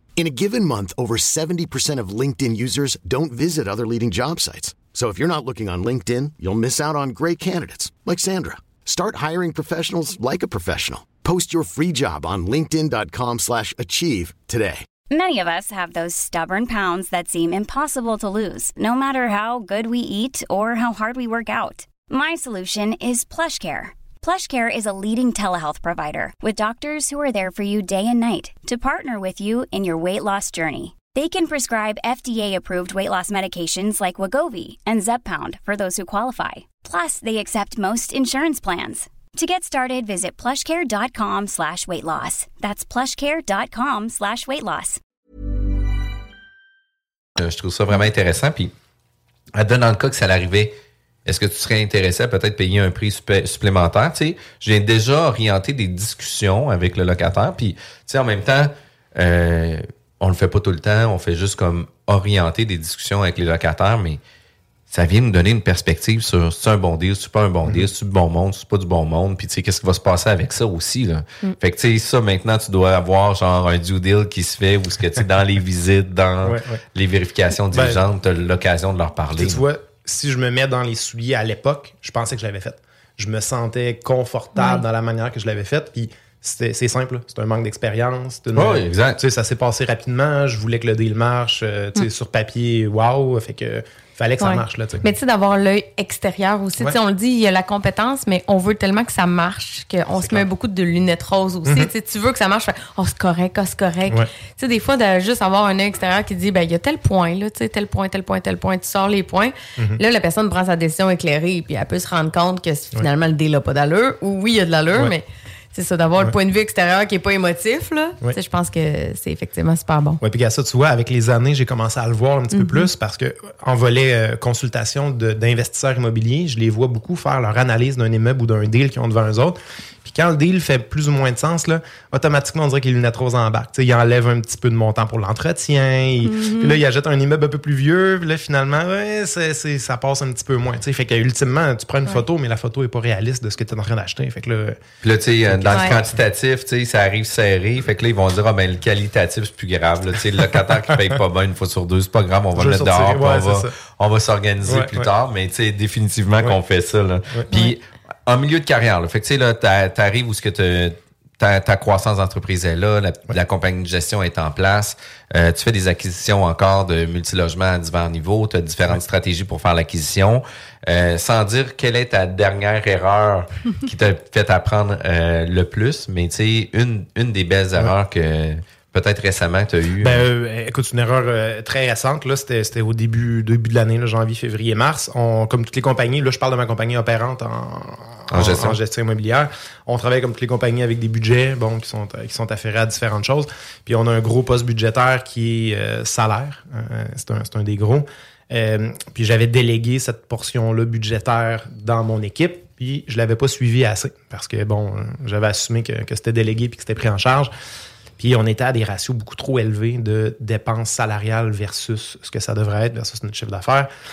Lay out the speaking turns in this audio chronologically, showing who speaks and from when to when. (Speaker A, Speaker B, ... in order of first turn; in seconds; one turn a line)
Speaker A: 0.2-14.9
Speaker B: 15.1-45.0
Speaker C: 47.4-48.7
Speaker C: 49.5-50.7
Speaker C: 51.3-64.2
Speaker C: 64.9-79.6
Speaker D: 76.4-76.8
Speaker D: 77.7-78.0
Speaker D: 79.3-95.1
Speaker E: 84.6-84.8
Speaker C: 88.6-89.2
Speaker E: 94.4-120.2
Speaker D: 100.2-100.4
Speaker D: 120.2-144.8
Speaker E: 122.5-122.9
Speaker E: 136.2-136.8
Speaker C: 145.0-180.2
Speaker D: 145.5-146.2
Speaker D: 152.6-153.7
Speaker D: 154.7-155.1
Speaker D: 180.0-207.5
Speaker C: 188.3-188.8
Speaker D: 208.2-213.9